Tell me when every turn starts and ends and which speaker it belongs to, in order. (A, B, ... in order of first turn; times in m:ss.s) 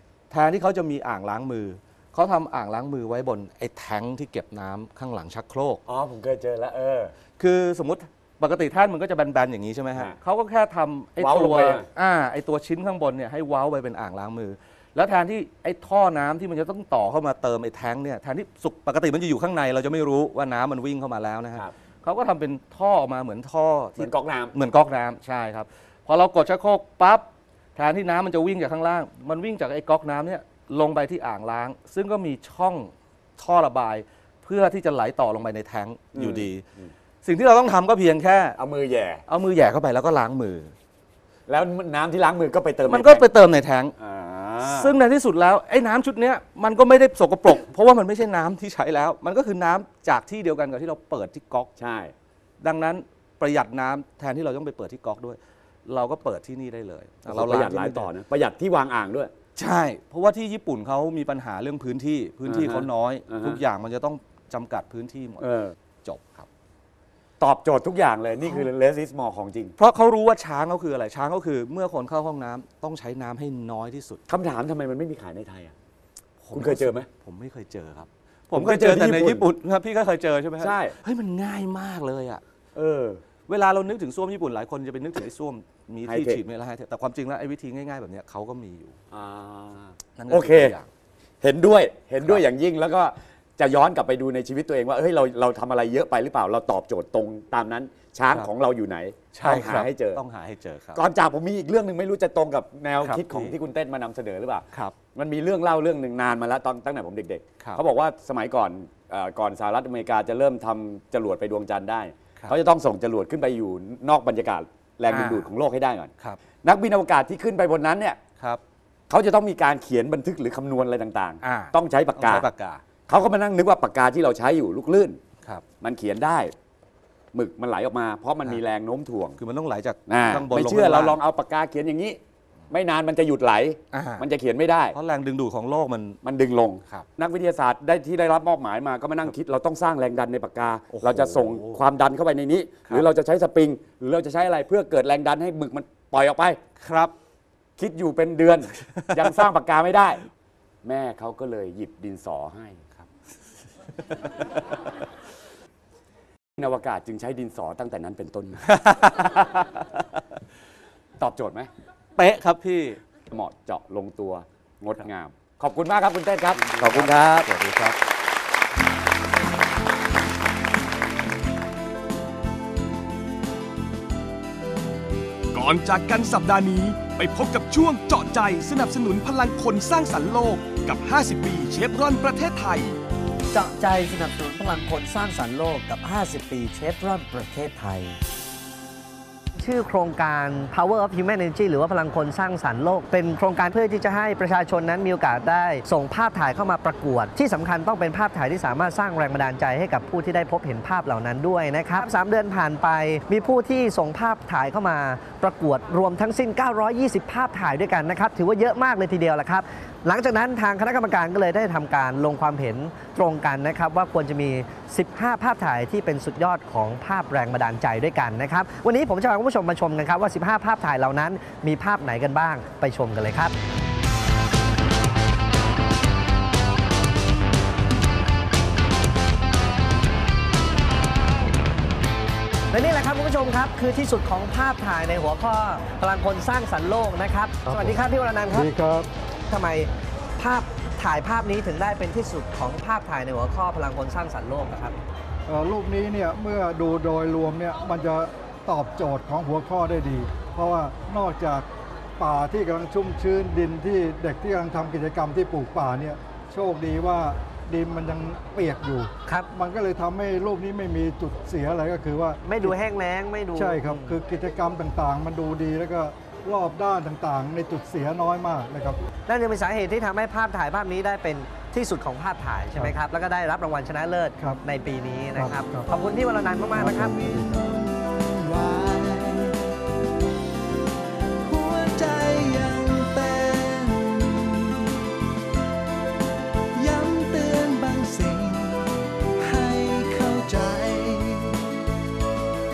0:00.3-0:05.8 A
0:05.9-0:07.1 B
0:07.4-0:36.6 A
0:11.2-0:11.9 B
0:24.0-0:24.6 B
0:36.1-0:36.9 B
0:37.2-0:38.6 A
0:38.6-0:39.2 B
0:39.3-0:40.7 A
0:41.5-0:43.3 B
0:42.9-0:43.9 A
0:44.0-0:45.0 B
0:44.6-0:51.7 A
0:51.8-0:52.1 B
0:52.6-0:58.1 A
0:57.2-0:59.3 B
0:59.6-1:06.5 A
1:02.4-1:03.6 B
1:05.4-1:05.8 B
1:07.4-1:09.7 B
1:09.8-1:14.2 A
1:14.3-1:15.7 B
1:16.4-1:22.4 A
1:16.5-1:17.1 B
1:18.5-1:19.5 B
1:20.6-1:21.0 B
1:22.7-1:23.2 B
1:23.5-1:29.0 A
1:26.0-1:26.4 B
1:29.1-1:30.8 B
1:30.2-1:30.9 A
1:31.4-1:40.2 B
1:39.3-1:41.1 A
1:41.0-1:56.1 B
1:43.0-1:43.5 A
1:55.1-1:55.5 A
1:56.6-1:58.2 B
1:59.1-2:02.5 B
2:01.4-2:02.8 A
2:03.1-2:05.2 B
2:05.8-2:06.5 B
2:07.3-2:09.4 B
2:09.4-2:11.2 A
2:10.1-2:12.2 B
2:12.7-2:15.0 B
2:13.9-2:14.3 A
2:14.9-2:16.2 A
2:16.2-2:26.6 B
2:20.9-2:21.8 A
2:26.8-2:27.1 A
2:27.8-2:30.3 B
2:28.8-2:29.4 A
2:30.8-2:32.8 B
2:34.1-2:34.7 A
2:36.6-2:38.7 B
2:38.7-2:40.0 A
2:41.2-2:41.7 B
2:42.2-2:43.0 A
2:43.3-2:47.5 B
2:46.6-2:48.0 A
2:55.5-3:03.0 C
3:03.5-3:08.2 D
3:09.6-3:43.5 D
3:52.7-3:58.7 D
3:57.7-3:58.0 E
3:58.5-3:59.1 E
3:59.5-4:05.0 D
4:05.5-4:11.7 E
4:12.2-4:22.7 E
4:19.2-4:19.5 D
4:22.4-4:24.2 D
4:23.6-4:29.0 E
4:29.3-4:37.2 D
4:35.4-4:35.9 E
4:36.7-4:37.6 E
4:37.1-4:39.8 F
4:41.4-4:45.1 F
4:46.7-4:51.7 F